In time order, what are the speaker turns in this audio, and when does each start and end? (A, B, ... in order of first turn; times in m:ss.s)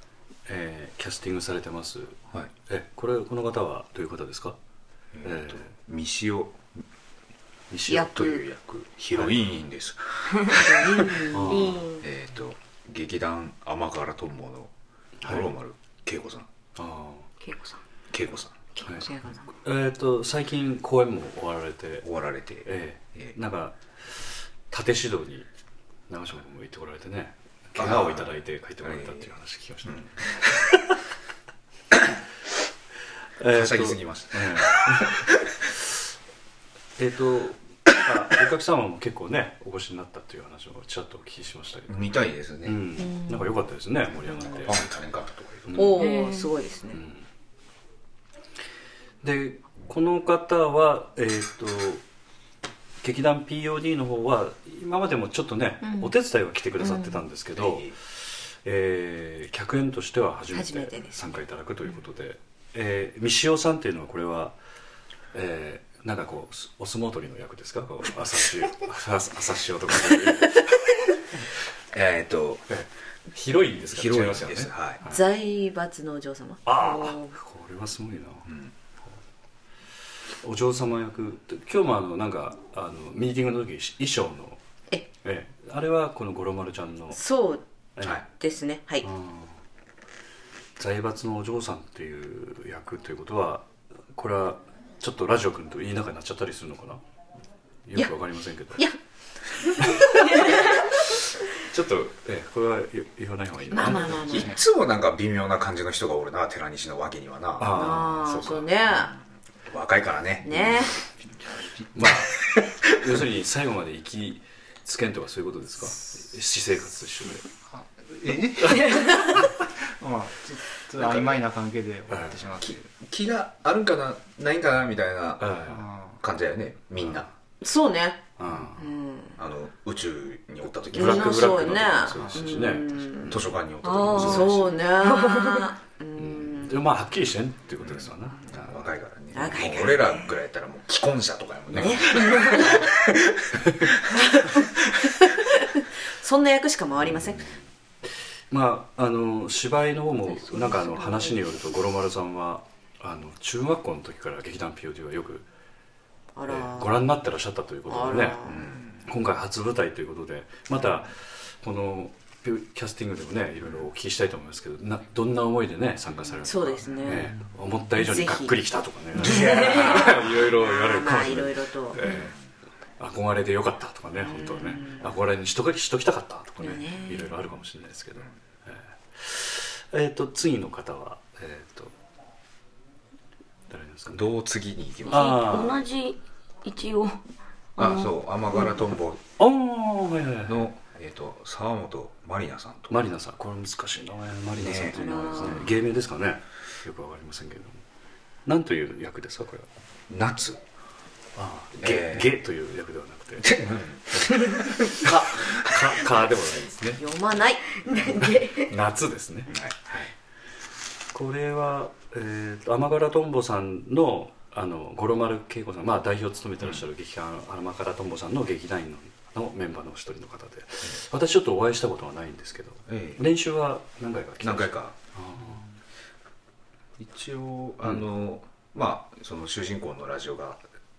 0:00.5-0:04.6 A
0:05.1-0:06.6 B
0:05.2-0:05.7 A
0:07.7-0:08.3 A
0:07.9-0:11.3 B
0:10.5-0:11.8 C
0:11.3-0:11.8 A
0:11.3-0:12.1 D
0:12.0-0:14.7 B
0:15.2-0:15.5 A
0:15.2-0:16.5 B
0:16.8-0:17.3 A
0:17.4-0:17.8 D
0:18.1-0:18.6 B
0:18.8-0:19.4 C
0:18.8-0:22.1 A
0:22.0-0:23.3 B
0:22.6-0:25.5 A
0:26.1-0:30.2 A
0:27.8-0:29.3 B
0:29.8-0:30.5 B
0:33.4-0:35.1 A
0:33.5-0:35.5 B
0:37.0-0:41.9 A
0:41.9-0:42.8 B
0:42.6-0:44.8 A
0:43.0-0:43.4 C
0:44.4-0:46.0 B
0:45.7-0:46.2 A
0:45.7-0:47.0 C
0:46.0-0:46.5 D
0:46.9-0:47.2 A
0:49.2-0:52.0 A
0:53.0-0:57.9 A
0:55.8-0:56.1 C
0:56.8-0:57.2 C
0:57.6-0:57.9 B
0:58.5-1:04.6 A
1:00.5-1:01.3 C
1:05.3-1:10.8 A
1:11.9-1:12.7 B
1:12.7-1:15.2 A
1:13.9-1:15.0 B
1:15.0-1:17.3 C
1:16.6-1:18.5 A
1:18.4-1:18.7 B
1:20.4-1:24.6 A
1:25.2-1:27.2 A
1:27.1-1:27.6 C
1:28.0-1:28.2 A
1:28.3-1:29.1 C
1:29.0-1:29.6 A
1:30.8-1:37.0 A
1:37.8-1:38.9 A
1:39.6-1:40.8 C
1:39.8-1:40.8 A
1:41.5-1:44.5 A
1:43.7-1:44.6 C
1:43.9-1:50.9 B
1:47.6-1:48.2 A
1:47.7-1:49.1 C
1:50.4-1:51.0 C
1:51.9-1:57.4 A
1:52.0-1:53.1 B
1:57.7-2:02.8 E
1:58.6-1:59.0 A
2:02.1-2:02.5 A
2:02.6-2:07.3 B
2:05.4-2:05.9 A
2:05.7-2:06.2 E
2:07.0-2:07.3 A
2:07.6-2:08.2 C
2:08.4-2:08.9 A
2:08.8-2:09.4 C
2:09.4-2:14.8 B
2:10.9-2:13.4 C
2:10.9-2:13.4 A
2:13.8-2:15.7 D
2:14.0-2:14.5 A
2:14.2-2:16.8 C
2:16.2-2:18.8 A
2:17.8-2:23.9 B
2:19.3-2:20.3 C
2:21.7-2:22.6 A
2:21.8-2:22.9 C
2:24.1-2:27.5 C
2:28.5-2:35.4 A
2:30.4-2:31.3 D
2:36.4-2:37.0 C
2:36.5-2:38.4 A
2:37.9-2:38.6 C
2:38.4-2:39.0 B
2:39.0-2:52.3 A
2:46.4-2:47.3 C
2:46.8-2:47.2 B
2:48.0-2:48.5 C
2:49.2-2:50.2 B
2:49.2-2:52.1 C
2:53.0-3:01.9 A
2:54.2-2:55.1 C
2:56.6-2:57.3 C
3:03.7-3:04.3 A
3:04.1-3:05.4 B
3:05.0-3:07.2 D
3:05.1-3:05.8 A
3:07.8-3:08.1 D
3:07.8-3:09.2 B
3:09.4-3:10.7 A
3:10.5-3:13.0 B
3:12.9-3:17.8 A
3:14.6-3:15.7 B
3:14.9-3:15.7 C
3:18.4-3:19.7 A
3:20.1-3:20.6 B
3:21.4-3:27.0 A
3:21.8-3:22.3 B
3:23.4-3:24.3 B
3:25.0-3:25.7 B
3:27.0-3:27.8 C
3:27.8-3:28.7 D
3:28.6-3:29.5 A
3:29.5-3:30.1 B
3:31.1-3:45.6 A
3:42.9-3:43.2 B
3:44.4-3:45.0 B
3:47.0-3:50.6 B